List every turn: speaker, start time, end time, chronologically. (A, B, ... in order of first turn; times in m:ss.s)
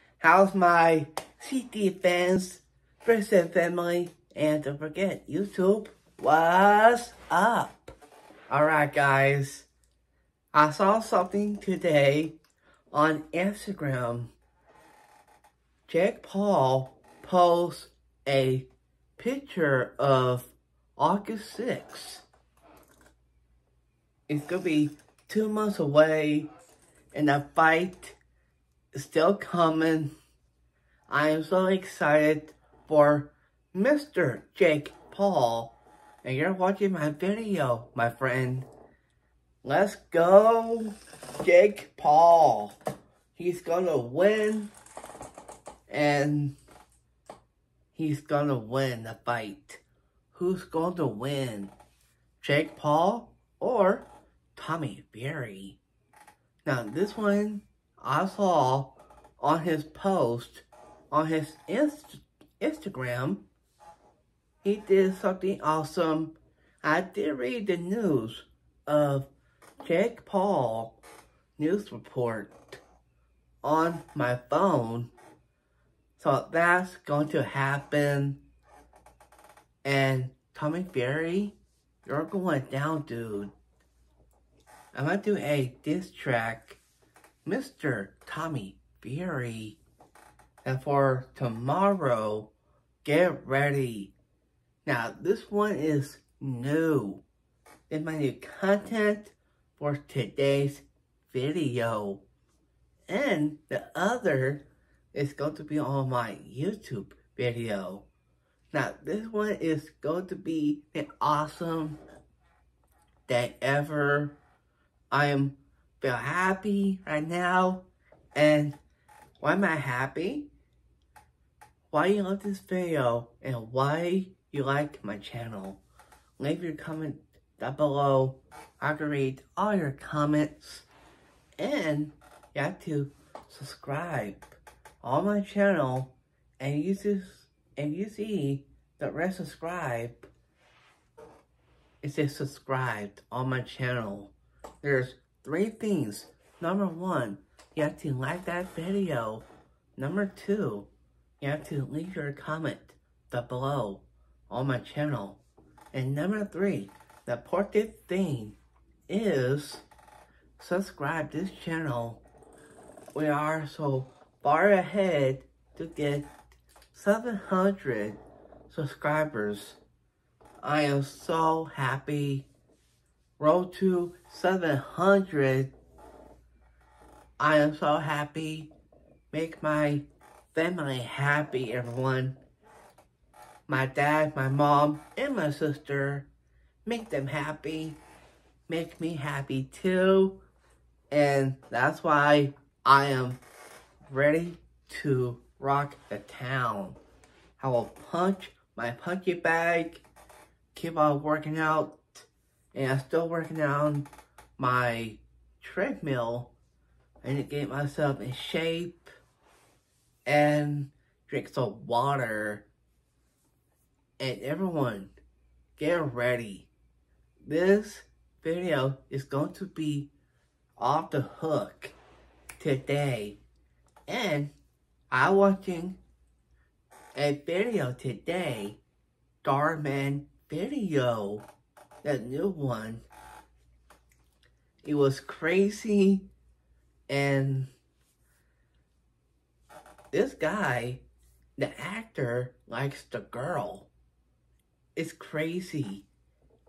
0:00.2-0:08.0 A
0:08.5-0:09.7 A
0:10.5-0:12.4 A
0:12.9-0:14.3 A
0:15.9-0:22.2 A
0:24.3-0:26.5 A
0:27.1-0:28.2 A
0:28.9-0:30.1 A
0:31.1-0:38.7 A
0:39.6-0:42.8 A
0:43.4-0:44.7 A
0:45.9-0:46.6 A
0:47.9-0:49.8 A
0:50.3-0:51.7 A
0:52.4-0:55.8 A
0:56.6-1:03.4 A
1:04.6-1:09.3 A
1:09.8-1:11.0 A
1:11.6-1:12.8 A
1:13.6-1:15.1 A
1:16.2-1:18.4 A
1:19.8-1:23.5 A
1:24.9-1:26.8 A
1:27.4-1:29.8 A
1:30.6-1:32.5 A
1:33.0-1:34.1 A
1:34.8-1:37.2 A
1:37.9-1:42.2 A
1:43.1-1:48.1 A
1:48.7-1:52.0 A
1:53.3-1:54.4 A
1:55.1-1:58.8 A
1:59.4-2:00.5 A
2:01.9-2:05.8 A
2:06.4-2:10.9 A
2:11.6-2:20.3 A
2:22.0-2:30.9 A
2:31.4-2:35.4 A
2:35.9-2:38.6 A
2:39.1-2:39.8 A
2:40.6-2:42.2 A
2:43.1-2:46.3 A
2:46.9-2:49.8 A
2:50.6-2:52.5 A
2:53.4-2:55.7 A
2:57.4-2:58.7 A
2:59.3-3:02.4 A
3:03.7-3:06.3 A
3:06.8-3:08.0 A
3:08.7-3:10.4 A
3:11.1-3:13.4 A
3:14.0-3:17.0 A
3:17.6-3:20.0 A
3:20.7-3:26.5 A
3:27.2-3:29.1 A
3:30.3-3:32.7 A
3:34.2-3:35.1 A
3:35.8-3:36.7 A
3:37.4-3:40.1 A
3:40.8-3:42.0 A
3:42.6-3:43.4 A
3:44.1-3:44.5 A
3:45.1-3:46.0 A
3:47.2-3:48.8 A
3:49.4-3:51.5 A
3:52.0-3:53.1 A
3:54.8-3:56.3 A
3:57.1-3:57.7 A
4:00.1-4:01.0 A
4:01.6-4:03.9 A
4:05.0-4:06.1 A